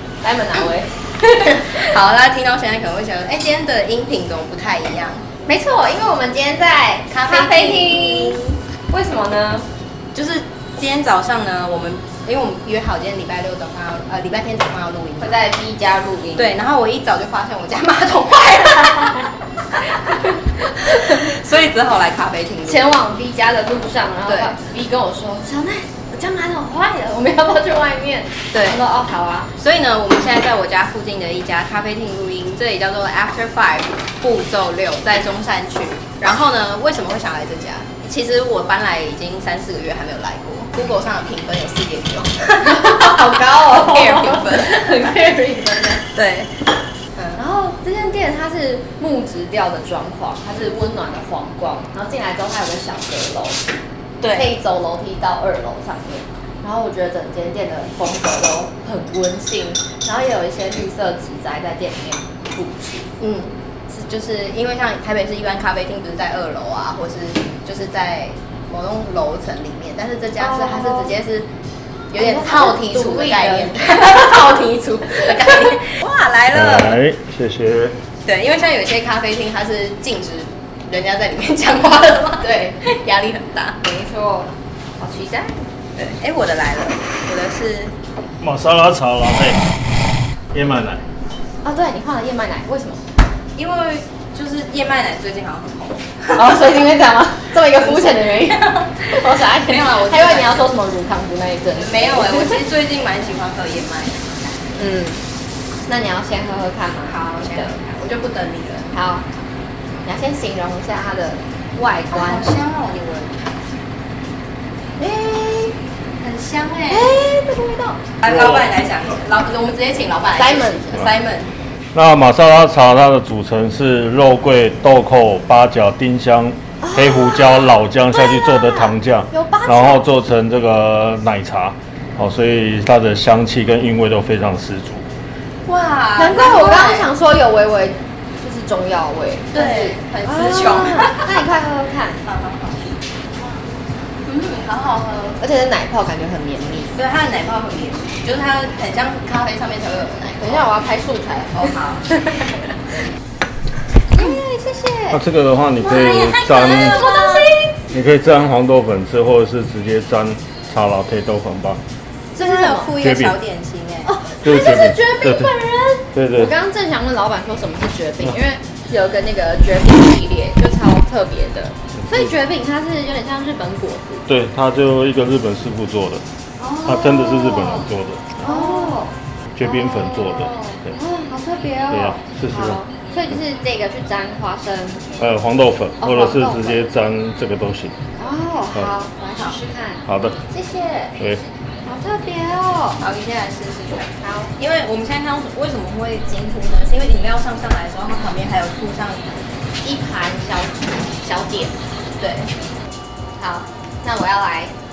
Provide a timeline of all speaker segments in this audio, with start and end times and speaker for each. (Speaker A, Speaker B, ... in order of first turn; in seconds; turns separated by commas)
Speaker A: 0.2-1.8, Speaker B: 1.4-5.3, Speaker A: 5.5-9.7, Speaker B: 7.1-8.4, Speaker B: 10.1-15.4, Speaker A: 15.2-16.6, Speaker B: 16.4-19.3, Speaker A: 19.9-21.2, Speaker B: 20.8-22.9, Speaker A: 22.7-29.5, Speaker B: 24.3-24.5, Speaker B: 28.5-28.8, Speaker B: 29.6-45.1, Speaker A: 42.6-46.0, Speaker B: 46.1-46.5, Speaker A: 47.4-53.7, Speaker B: 54.2-54.5, Speaker A: 54.3-63.1, Speaker B: 63.2-71.5, Speaker A: 70.4-71.1, Speaker B: 72.1-77.0, Speaker A: 72.2-74.4, Speaker A: 75.2-75.7, Speaker C: 76.5-78.0, Speaker B: 78.2-83.8, Speaker A: 82.4-82.8, Speaker A: 83.8-85.6, Speaker B: 86.0-87.9, Speaker C: 88.4-89.6, Speaker C: 90.5-91.0, Speaker A: 91.6-93.0, Speaker B: 93.6-96.7, Speaker A: 96.3-102.6, Speaker B: 97.6-100.7, Speaker B: 101.8-104.7, Speaker A: 104.8-105.2, Speaker A: 105.9-107.8, Speaker B: 107.1-108.9, Speaker A: 108.9-109.2, Speaker A: 110.0-112.5, Speaker B: 112.1-113.5, Speaker A: 115.0-115.7, Speaker B: 116.2-117.2, Speaker A: 116.9-118.0, Speaker B: 118.2-121.5, Speaker C: 118.3-118.6, Speaker A: 120.4-121.1, Speaker C: 121.9-135.1, Speaker A: 126.8-130.0, Speaker B: 135.7-137.1, Speaker A: 136.2-142.2, Speaker B: 139.5-141.4, Speaker B: 142.2-142.9, Speaker B: 144.2-145.4, Speaker A: 145.4-146.9, Speaker B: 146.9-150.7, Speaker A: 150.4-151.7, Speaker B: 151.5-152.6, Speaker A: 154.1-155.2, Speaker C: 155.1-157.0, Speaker B: 155.8-157.5, Speaker A: 156.6-157.8, Speaker C: 157.9-161.8, Speaker A: 162.3-162.9, Speaker B: 162.4-164.1, Speaker C: 163.0-163.4, Speaker A: 164.1-174.3, Speaker C: 164.4-165.5, Speaker C: 166.1-166.5, Speaker C: 174.3-176.2, Speaker A: 176.6-177.9, Speaker C: 176.8-178.4, Speaker A: 178.4-185.1, Speaker B: 178.4-179.0, Speaker C: 179.6-180.9, Speaker C: 181.9-182.8, Speaker C: 185.2-187.9, Speaker A: 186.0-186.8, Speaker A: 188.2-191.1, Speaker C: 190.1-190.4, Speaker A: 191.9-193.0, Speaker B: 193.0-199.4, Speaker A: 194.2-194.5, Speaker A: 199.8-201.8, Speaker B: 202.2-202.5, Speaker A: 203.4-204.7